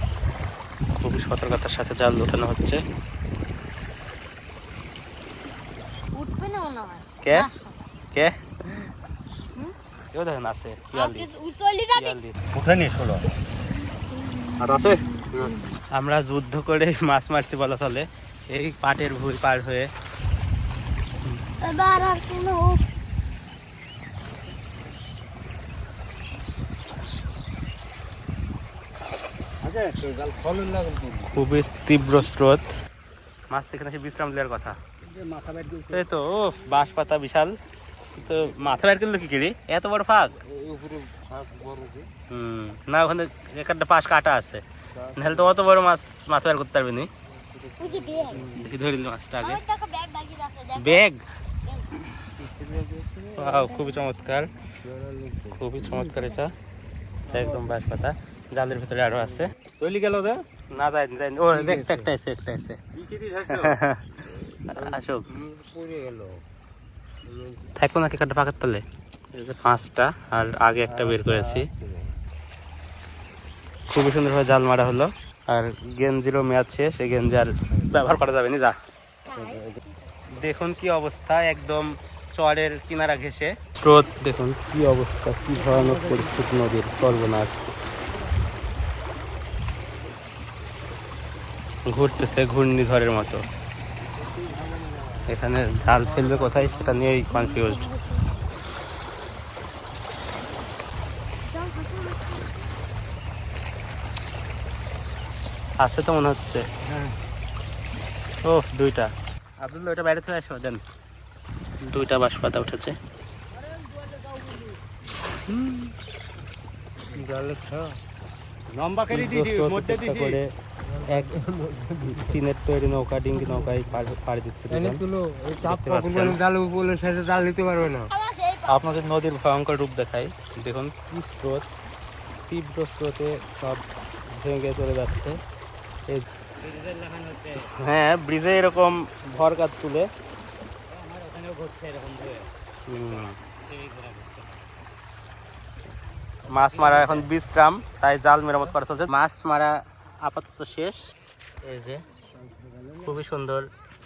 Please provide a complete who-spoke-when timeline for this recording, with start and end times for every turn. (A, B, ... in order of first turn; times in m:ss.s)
0:01.0-0:02.8 A
0:06.2-0:07.8 B
0:07.2-0:07.5 A
0:08.1-0:08.8 A
0:10.1-0:11.3 A
0:10.9-0:12.2 B
0:11.9-0:13.0 A
0:14.1-0:15.7 B
0:14.6-0:15.0 A
0:15.9-0:19.9 A
0:21.6-0:22.8 B
0:29.6-0:31.3 C
0:31.3-0:32.7 A
0:33.5-0:34.8 A
0:35.1-0:36.1 C
0:35.9-0:37.6 A
0:38.1-0:40.4 A
0:40.4-0:42.1 C
0:42.3-0:44.6 A
0:45.0-0:45.6 C
0:45.2-0:47.1 A
0:47.5-0:48.8 C
0:47.8-0:48.6 B
0:48.4-0:49.6 A
0:49.4-0:51.0 B
0:50.8-0:51.2 A
0:52.4-0:53.6 C
0:53.3-0:54.5 A
0:53.5-0:54.1 B
0:54.8-0:56.3 C
0:55.5-0:56.5 A
0:57.3-0:57.7 C
0:57.3-1:02.8 A
0:59.2-0:59.5 C
1:01.5-1:02.1 C
1:03.0-1:03.8 C
1:03.5-1:05.3 A
1:04.4-1:06.4 C
1:07.3-1:07.7 C
1:07.8-1:08.8 A
1:09.3-1:11.7 A
1:10.8-1:12.1 C
1:13.9-1:18.8 A
1:19.2-1:19.9 B
1:19.4-1:19.6 C
1:20.3-1:27.5 A
1:25.6-1:26.3 C
1:31.9-1:33.5 A
1:34.3-1:35.3 C
1:35.3-1:37.9 A
1:35.8-1:37.3 C
1:37.3-1:38.4 B
1:41.5-1:42.6 B
1:45.8-1:46.7 A
1:48.4-1:50.8 A
1:51.8-1:53.0 A
1:55.5-1:55.9 A
1:57.1-1:58.0 C
1:58.8-2:00.4 C
1:59.1-2:00.5 A
2:00.9-2:02.4 C
2:01.0-2:01.4 A
2:02.0-2:05.0 A
2:03.3-2:04.1 C
2:04.7-2:08.1 C
2:05.6-2:06.4 A
2:08.0-2:09.0 B
2:08.7-2:11.7 A
2:12.5-2:15.4 A
2:16.6-2:17.6 C
2:17.7-2:20.1 A
2:20.9-2:22.5 C
2:22.9-2:23.4 A
2:23.1-2:24.4 C
2:26.5-2:32.0 A
2:26.6-2:27.3 C
2:33.0-2:33.7 A